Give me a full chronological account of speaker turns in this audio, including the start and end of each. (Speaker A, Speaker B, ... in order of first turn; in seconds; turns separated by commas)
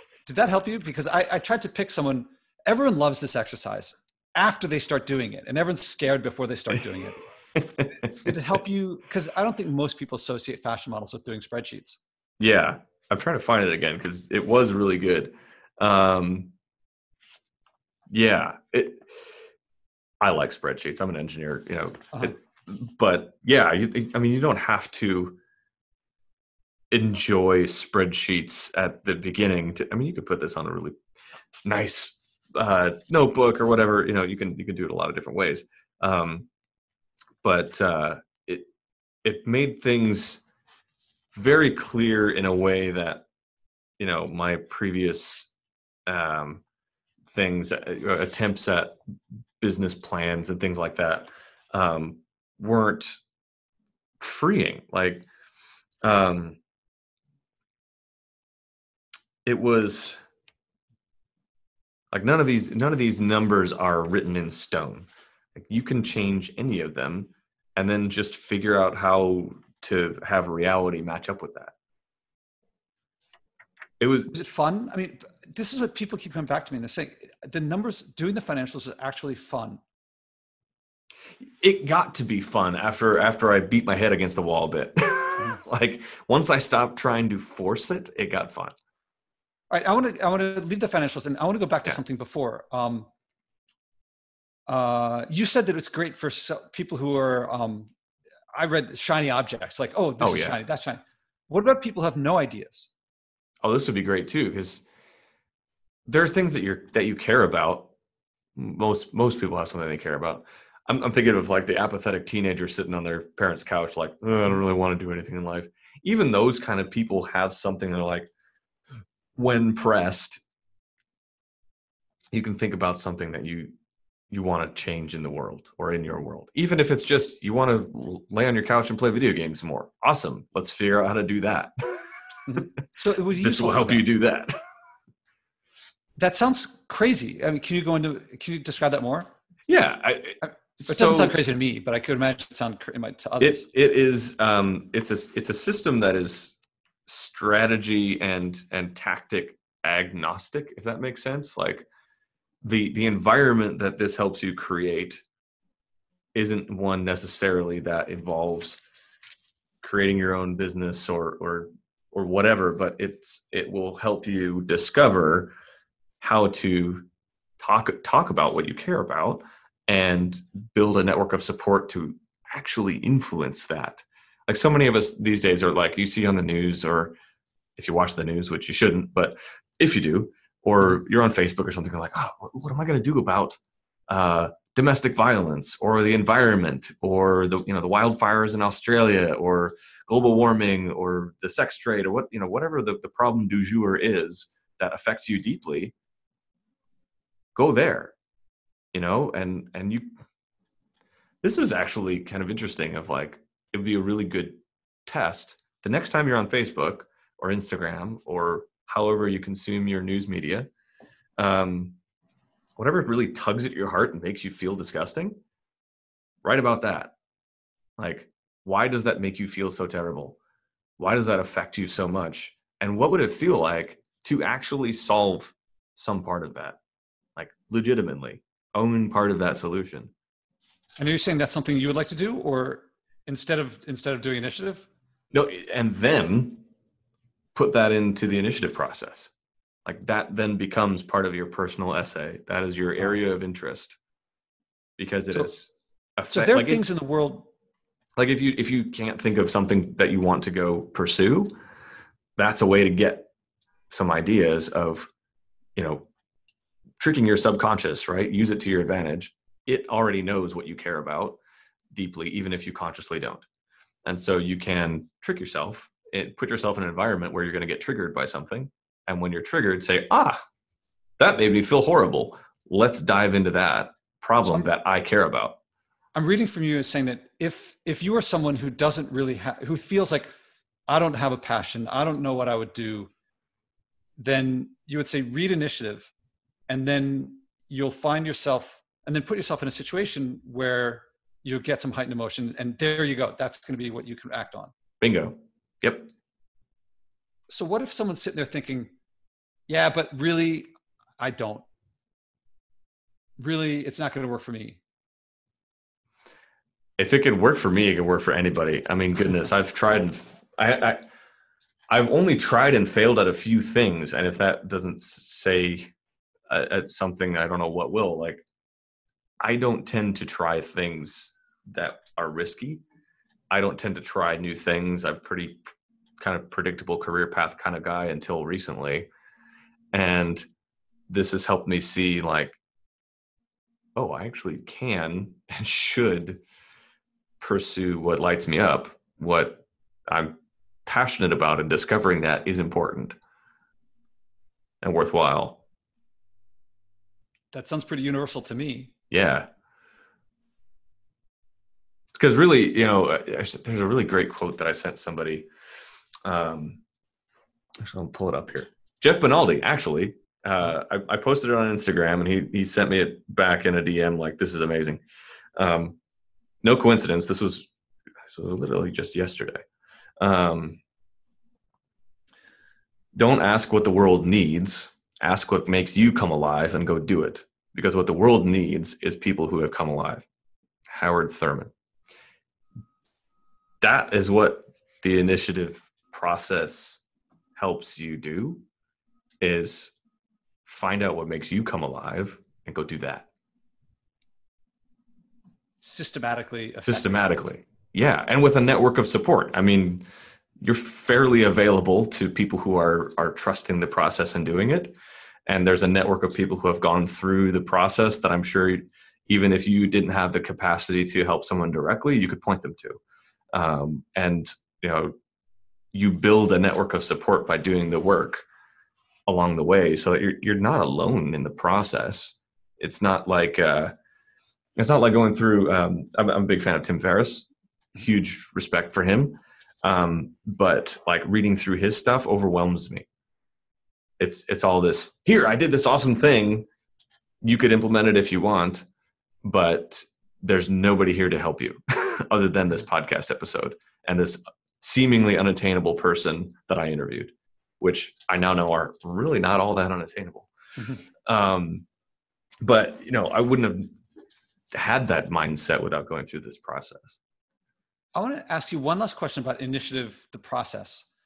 Speaker A: 0.3-7.2, Speaker B: 7.8-8.3, Speaker A: 8.0-12.0, Speaker B: 12.4-16.5, Speaker B: 18.1-19.1, Speaker B: 20.2-25.4, Speaker B: 26.9-31.0, Speaker B: 31.6-36.5, Speaker B: 37.4-38.7, Speaker B: 39.2-40.4, Speaker B: 41.3-43.2, Speaker B: 44.0-45.5, Speaker B: 46.1-46.6, Speaker B: 47.3-49.0, Speaker B: 49.6-53.2, Speaker B: 54.2-55.3, Speaker B: 56.0-56.6, Speaker B: 59.5-60.2, Speaker B: 62.1-71.7, Speaker B: 74.0-74.3, Speaker A: 74.3-79.8, Speaker B: 81.6-88.8, Speaker A: 89.7-93.1, Speaker A: 94.7-97.9, Speaker A: 98.5-102.9, Speaker B: 100.2-100.6, Speaker B: 103.6-104.8, Speaker B: 106.1-107.9, Speaker B: 108.6-118.3, Speaker B: 119.4-120.4, Speaker B: 122.3-123.7, Speaker B: 124.3-132.1, Speaker A: 132.5-134.1, Speaker B: 133.4-134.6, Speaker A: 136.2-139.3, Speaker B: 139.7-141.4, Speaker A: 140.4-143.7, Speaker B: 143.4-151.9, Speaker B: 152.6-155.2, Speaker B: 156.3-158.8, Speaker B: 159.8-165.6, Speaker B: 166.2-167.1, Speaker B: 167.6-177.2, Speaker B: 177.8-195.9, Speaker B: 197.6-198.2, Speaker B: 198.9-200.1, Speaker B: 201.4-210.7, Speaker B: 211.4-212.0, Speaker B: 212.8-215.4, Speaker B: 216.4-217.1, Speaker B: 218.0-220.4, Speaker B: 221.0-226.8, Speaker B: 227.4-230.1, Speaker A: 231.0-234.9, Speaker B: 235.3-236.7, Speaker B: 237.6-239.3, Speaker B: 239.8-244.0, Speaker B: 245.0-246.8, Speaker A: 246.3-247.5, Speaker B: 248.2-251.6, Speaker B: 252.4-253.3, Speaker B: 253.9-255.1, Speaker B: 255.8-256.1, Speaker B: 257.0-261.4, Speaker B: 261.9-263.5, Speaker B: 264.1-270.4, Speaker B: 271.2-275.6, Speaker A: 276.1-280.3, Speaker A: 280.9-283.1, Speaker A: 284.2-286.1, Speaker A: 286.7-294.7, Speaker B: 295.0-296.1, Speaker A: 297.5-298.9, Speaker A: 299.7-301.6, Speaker A: 303.4-304.8, Speaker B: 307.0-311.0, Speaker B: 311.9-315.9, Speaker B: 316.5-318.4, Speaker B: 319.4-322.8, Speaker B: 323.5-329.1, Speaker B: 329.9-330.4, Speaker B: 331.1-332.6, Speaker B: 334.0-336.4, Speaker B: 337.4-343.2, Speaker B: 344.8-345.6, Speaker A: 347.5-348.9, Speaker B: 349.1-349.5, Speaker B: 352.1-355.5, Speaker B: 356.2-356.8, Speaker B: 357.8-365.0, Speaker B: 365.6-366.0, Speaker B: 366.6-367.7, Speaker B: 368.2-369.6, Speaker B: 370.2-370.8, Speaker B: 373.2-380.3, Speaker B: 380.9-381.7, Speaker B: 383.8-387.0, Speaker B: 387.6-388.6, Speaker B: 389.4-389.9, Speaker B: 390.6-393.3, Speaker A: 395.8-397.4, Speaker B: 396.8-400.0, Speaker B: 400.6-405.0, Speaker B: 405.5-413.0, Speaker B: 413.5-415.1, Speaker B: 415.9-418.4, Speaker B: 419.3-423.9, Speaker B: 424.8-433.1, Speaker B: 434.2-436.7, Speaker B: 437.4-438.9, Speaker B: 439.4-450.5, Speaker B: 451.0-451.9, Speaker B: 452.6-453.9, Speaker B: 454.7-457.2, Speaker A: 458.1-461.1